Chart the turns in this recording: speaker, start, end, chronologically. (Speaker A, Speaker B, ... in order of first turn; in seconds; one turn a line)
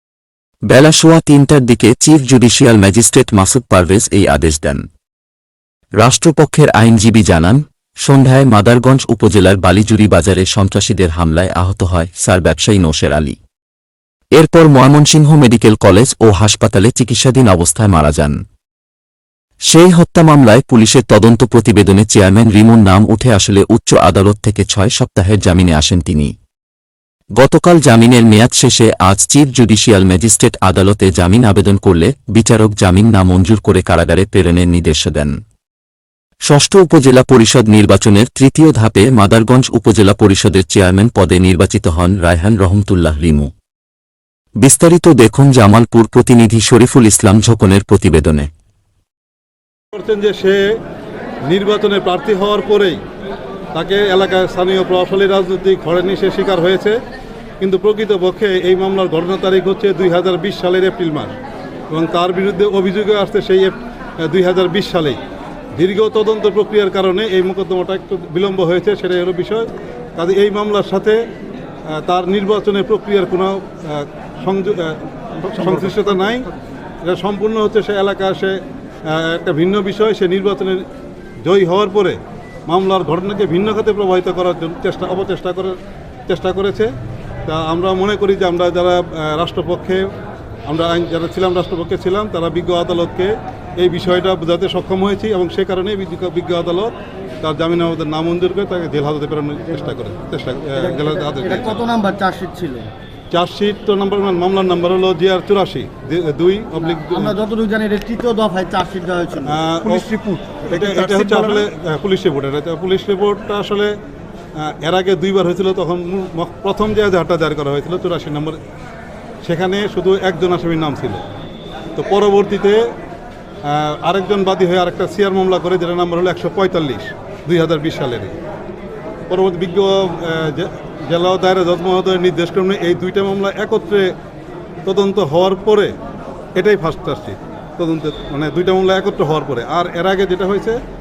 Speaker A: 0.7-4.8
Speaker A: 6.0-13.4
Speaker A: 14.3-18.4
Speaker A: 19.7-26.3
Speaker A: 27.4-35.4
Speaker A: 36.5-43.5
Speaker A: 44.6-48.5
Speaker B: 49.9-50.7
Speaker B: 51.4-53.0
Speaker B: 53.7-57.0
Speaker B: 57.6-61.4
Speaker B: 61.9-65.2
Speaker B: 65.7-71.2
Speaker B: 71.9-76.5
Speaker B: 77.0-80.8
Speaker B: 81.4-85.8
Speaker B: 86.3-86.9
Speaker B: 87.5-90.1
Speaker B: 90.7-96.9
Speaker B: 97.4-101.9
Speaker C: 100.7-102.9
Speaker B: 103.3-107.4
Speaker C: 106.8-111.6
Speaker B: 109.4-110.1
Speaker B: 110.7-113.9
Speaker B: 114.5-118.6
Speaker B: 119.4-121.2
Speaker B: 122.0-122.8
Speaker B: 123.6-128.3
Speaker B: 129.3-134.1
Speaker B: 134.8-135.9
Speaker B: 136.5-140.8